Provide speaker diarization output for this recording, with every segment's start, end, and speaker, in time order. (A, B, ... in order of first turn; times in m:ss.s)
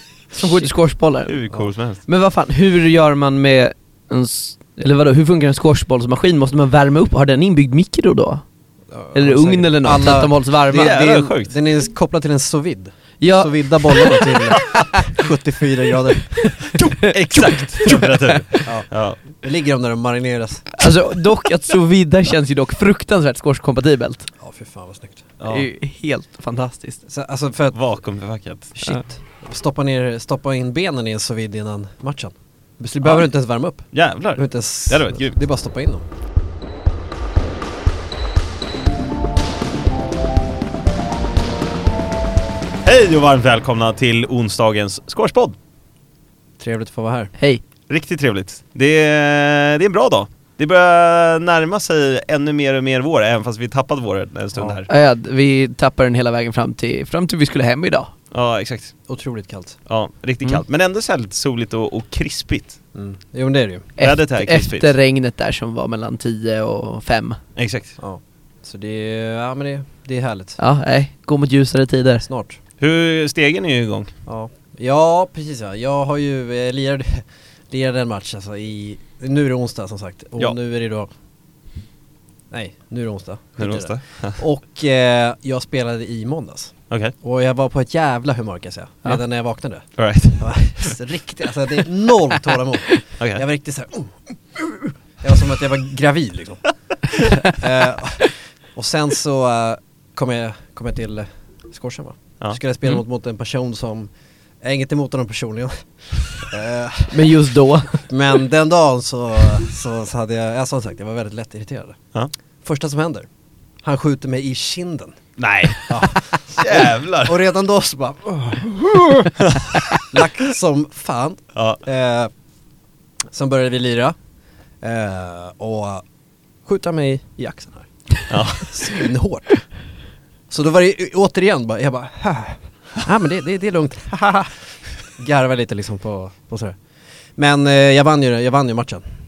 0:00.3-0:01.4 A
0:01.3-0:02.0 B
0:02.1-0:08.4 A
0:08.9-0:16.6 C
0:09.2-0:11.0 A
0:10.7-0:11.5 B
0:13.2-0:14.7 A
0:16.4-0:18.6 A
0:17.1-0:19.2 B
0:18.6-0:20.9 C
0:20.8-0:24.3 A
0:24.4-0:25.3 C
0:25.4-0:25.7 B
0:25.5-0:27.0 A
0:27.1-0:27.8 C
0:27.7-0:28.9 B
0:28.7-0:36.0 C
0:33.9-0:35.4 B
0:42.8-0:45.6 B
0:46.6-0:47.3 C
0:47.9-0:54.9 B
0:54.9-0:58.1 A
0:58.3-0:59.0 B
0:59.1-0:59.8 C
0:59.9-1:02.8 B
1:03.0-1:03.9 C
1:04.0-1:07.4 A
1:04.0-1:04.9 B
1:07.6-1:08.0 B
1:08.0-1:10.6 C
1:10.6-1:12.3 A
1:12.2-1:12.6 C
1:12.8-1:14.1 B
1:14.3-1:21.1 C
1:22.5-1:29.9 C
1:23.6-1:24.4 B
1:26.9-1:27.2 B
1:30.0-1:30.6 B
1:30.4-1:44.1 C
1:44.6-1:47.4 C
1:47.1-1:48.1 A
1:48.0-1:52.0 C
1:52.6-1:53.3 C
1:53.8-1:55.2 C
1:55.4-1:57.4 B
1:55.8-1:59.4 C
1:59.4-2:00.0 B
1:59.9-2:02.3 C
2:01.6-2:01.8 B
2:03.3-2:04.2 C
2:04.8-2:06.0 C
2:06.7-2:07.9 C
2:08.3-2:08.8 B
2:08.5-2:09.7 C
2:10.5-2:16.8 C
2:17.4-2:19.0 C